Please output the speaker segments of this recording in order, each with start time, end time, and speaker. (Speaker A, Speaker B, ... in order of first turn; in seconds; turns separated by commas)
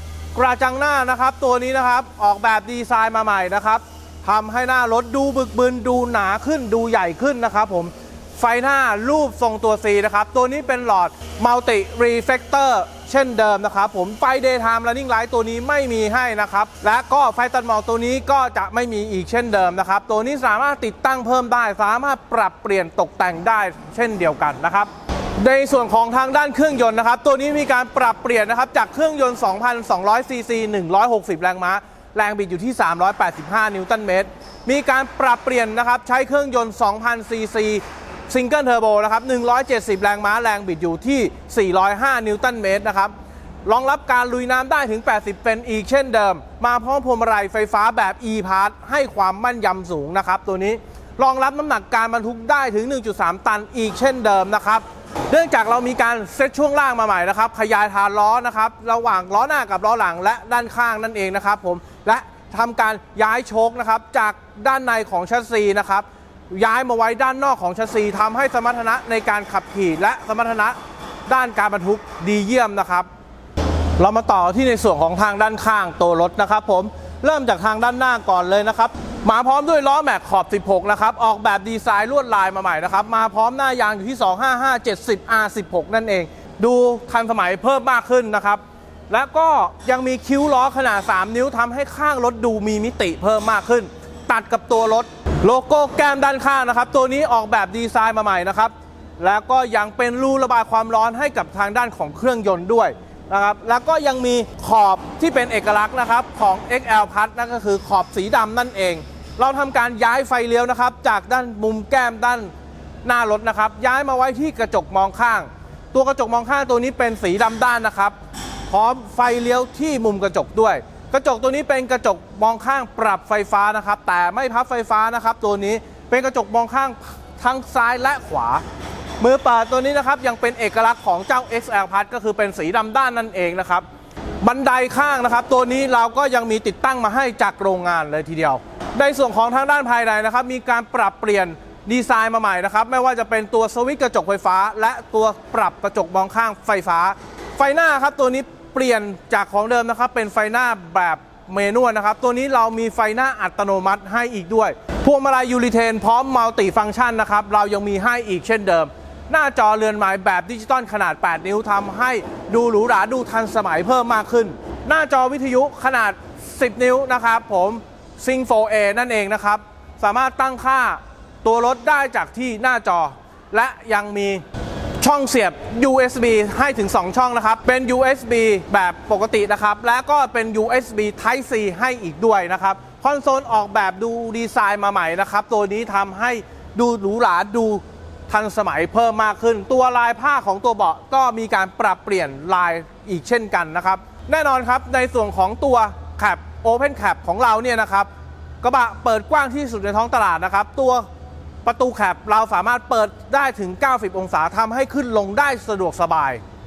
Speaker A: 0.3-43.1, Speaker A: 43.6-73.1, Speaker A: 74.0-112.5, Speaker A: 113.0-118.2, Speaker A: 118.7-128.6, Speaker A: 129.2-133.8, Speaker A: 134.4-174.4, Speaker A: 175.0-198.1, Speaker A: 198.6-201.1, Speaker A: 201.6-206.4